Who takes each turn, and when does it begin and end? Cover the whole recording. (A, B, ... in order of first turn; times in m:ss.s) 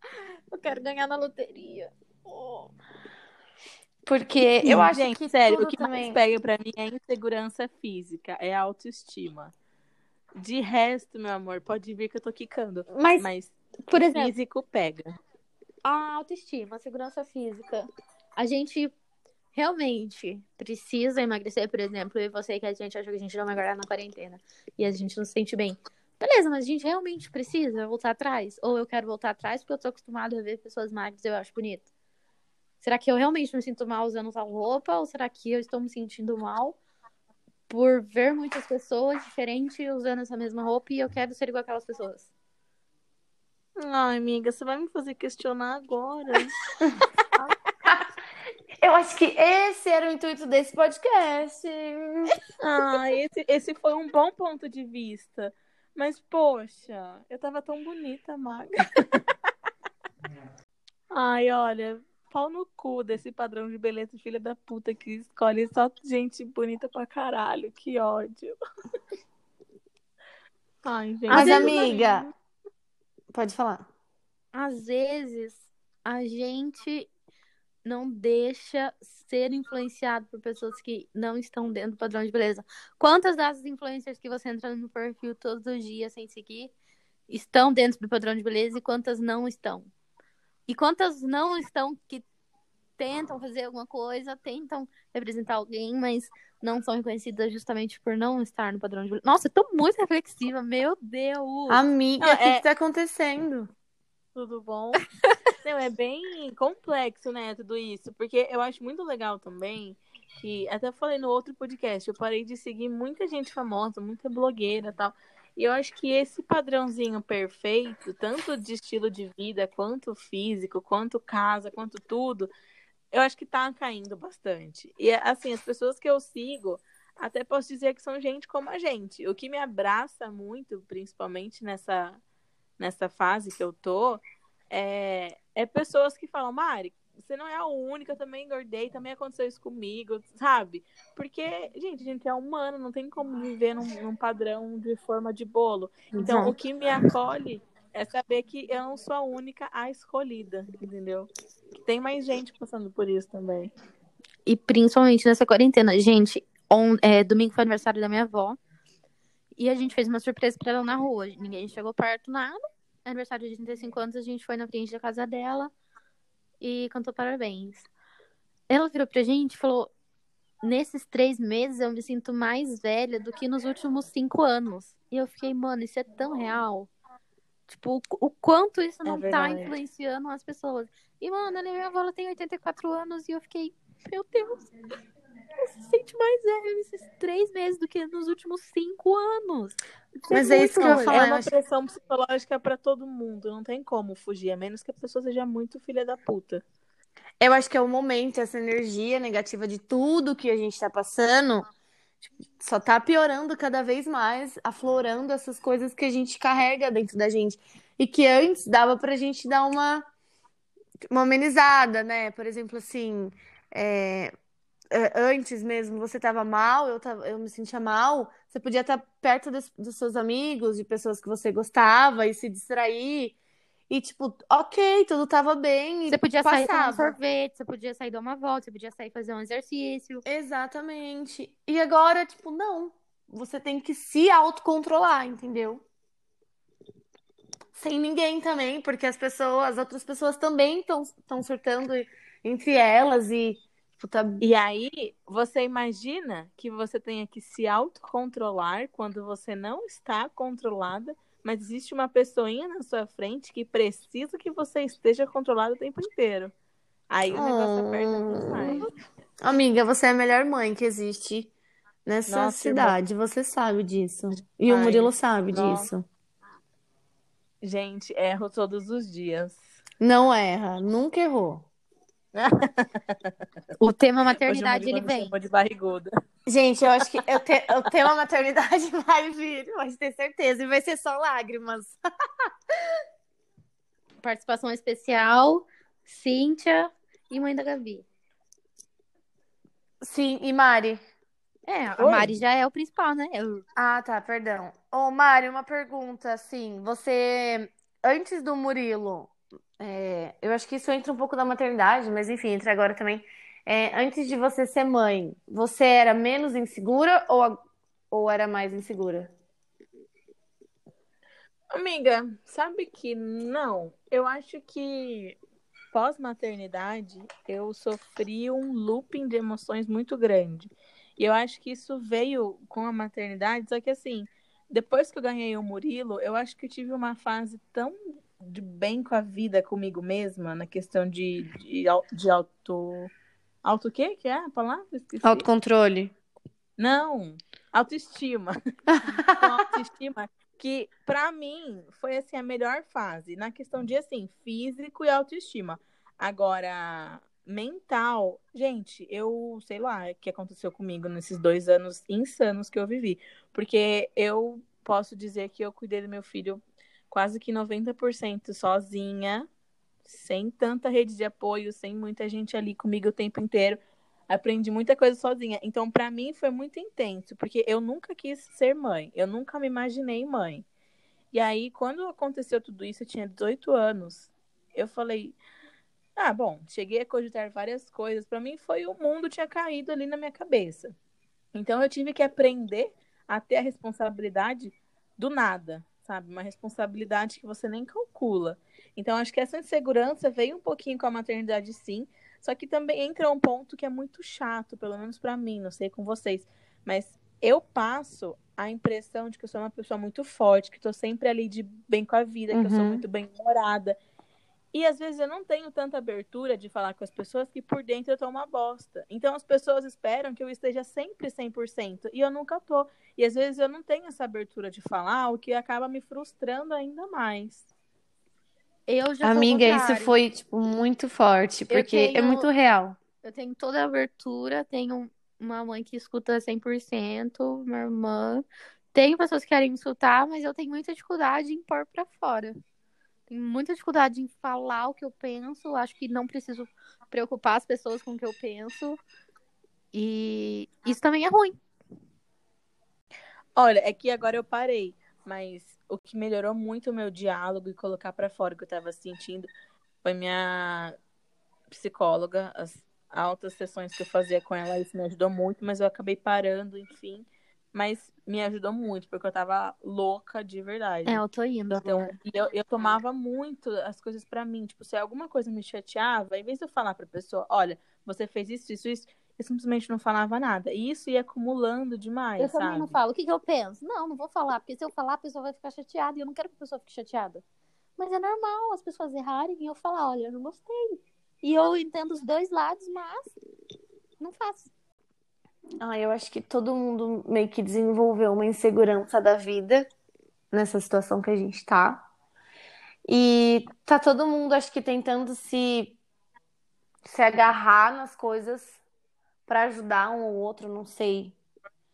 0:00.5-0:02.7 A
0:04.0-0:06.2 B
0:04.6-0:09.5 C
0:10.4-0:13.6 C
0:12.9-0:13.3 B
0:13.9-0:14.3 B
0:14.1-0:15.2 C
0:15.8-0:18.9 A
0:19.5-0:31.9 A
0:32.8-0:36.8 A
0:37.7-0:42.3 A
0:43.8-0:46.6 C
0:48.8-0:52.4 B
0:52.6-0:59.2 C
1:01.1-1:08.6 C
1:10.8-1:12.3 C
1:11.3-1:12.3 B
1:11.3-1:11.7 A
1:13.3-1:13.9 B
1:14.5-1:17.1 A
1:17.8-1:26.7 A
1:27.3-1:29.9 A
1:30.7-1:32.2 A
1:33.0-1:41.8 A
1:41.7-1:43.7 B
1:42.2-1:42.6 C
1:44.3-1:45.0 C
1:45.6-2:02.5 C
2:03.1-2:12.2 C
2:12.8-2:31.3 C
2:26.2-2:26.5 B
2:31.8-2:33.7 C
2:34.4-2:38.6 A
2:39.6-2:45.7 A
2:46.6-2:47.9 A
2:48.7-2:49.9 A
2:50.6-2:56.9 A
2:57.7-3:04.6 A
2:59.0-2:59.7 C
3:05.6-3:11.3 A
3:10.3-3:11.5 B
3:10.8-3:16.6 C
3:17.4-3:21.7 B
3:22.5-3:30.0 B
3:31.1-3:34.3 B
3:34.9-3:43.4 B
3:43.9-3:47.1 B
3:46.1-3:50.2 A
3:50.2-3:55.8 B
3:57.7-4:04.4 B
4:04.4-4:16.5 C
4:17.1-4:18.9 C
4:17.3-4:18.9 B
4:19.4-4:21.5 B
4:22.0-4:26.0 B
4:22.3-4:23.0 C
4:24.7-4:25.9 C
4:27.6-4:29.6 C
4:30.0-4:31.6 B
4:32.3-4:33.3 C
4:33.8-4:35.3 A
4:34.4-4:36.1 C
4:36.5-4:42.0 B
4:44.2-4:48.0 A
4:50.0-4:51.0 B
4:51.6-4:53.6 A
4:52.0-4:52.3 C
4:53.8-5:09.3 B
5:11.7-5:15.4 C
5:15.9-5:33.1 C
5:33.6-5:35.4 C
5:35.2-5:36.1 B
5:36.8-5:38.5 C
5:38.9-5:39.6 B
5:39.3-5:59.5 C
6:00.0-6:10.6 C
6:11.3-6:15.4 C
6:16.2-6:20.9 C
6:21.5-6:44.0 C
6:42.5-6:43.0 B
6:44.7-6:57.7 C
6:58.9-7:00.1 A
6:59.2-7:03.0 B
7:01.7-7:02.5 A
7:03.2-7:12.6 A
7:13.3-7:19.0 A
7:19.9-7:21.6 A
7:23.6-7:29.5 C
7:30.0-7:31.0 C
7:31.7-7:52.9 C
7:41.0-7:42.2 A
7:52.4-7:57.4 A
7:58.0-8:03.3 A
8:04.2-8:04.7 A
8:05.8-8:09.9 B
8:10.5-8:12.0 B
8:13.1-8:16.0 B
8:17.0-8:18.8 B
8:19.5-8:21.3 B